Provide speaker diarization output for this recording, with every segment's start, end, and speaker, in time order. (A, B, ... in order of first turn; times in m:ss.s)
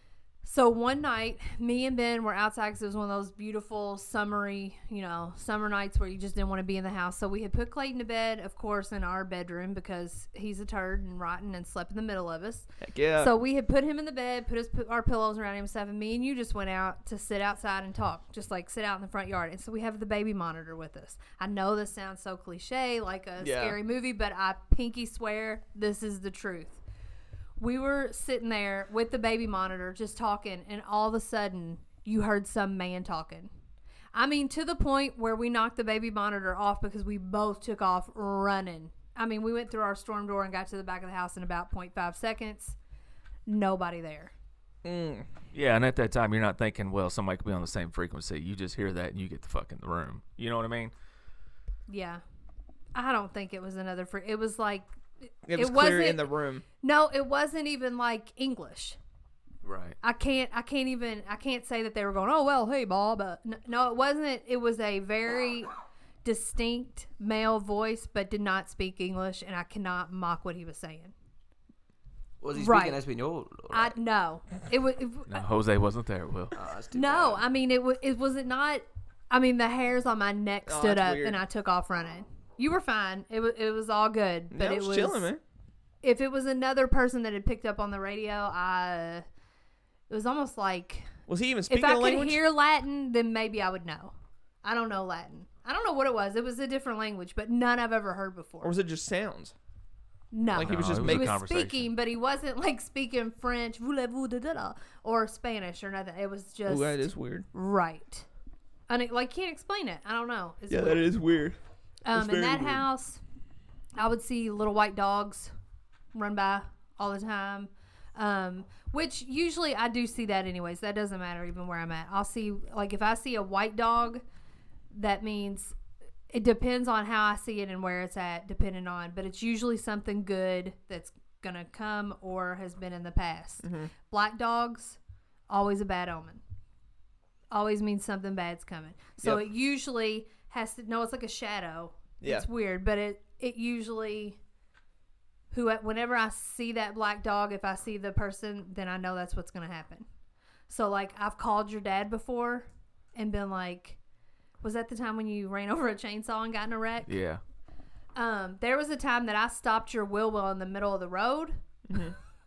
0:00.4-0:26.8 A
0:12.8-0:13.3 B
0:23.4-0:23.8 B
0:27.6-0:33.5 A
0:34.1-0:42.8 A
0:43.5-0:44.3 A
0:44.8-0:45.3 B
0:45.5-0:50.9 C
0:51.9-0:52.2 A
0:53.0-0:54.9 A
0:55.5-0:56.6 B
0:55.6-0:56.3 A
0:56.8-0:59.0 A
0:59.6-1:00.0 C
1:00.0-1:05.7 A
1:06.2-1:11.1 A
1:12.4-1:14.0 D
1:12.5-1:13.0 A
1:13.7-1:15.4 A
1:15.3-1:16.6 C
1:16.5-1:17.4 D
1:16.9-1:25.3 A
1:20.7-1:21.4 B
1:24.5-1:25.4 B
1:26.0-1:29.2 A
1:30.1-1:31.1 A
1:31.3-1:32.4 B
1:31.7-1:38.8 A
1:38.6-1:39.5 B
1:40.3-1:48.3 A
1:40.5-1:41.3 B
1:40.6-1:41.9 C
1:46.7-1:47.5 B
1:48.9-1:51.1 A
1:50.7-1:51.6 B
1:52.0-1:53.2 A
1:52.1-1:52.8 B
1:54.0-1:55.5 A
1:56.1-2:04.2 A
2:04.9-2:05.8 A
2:06.3-2:15.0 A
2:13.6-2:13.9 B
2:15.5-2:16.4 A
2:17.5-2:24.4 A
2:25.5-2:30.1 A
2:30.7-2:34.0 A
2:34.6-2:37.2 A
2:37.1-2:37.4 C
2:38.2-2:41.6 A
2:41.9-2:42.2 B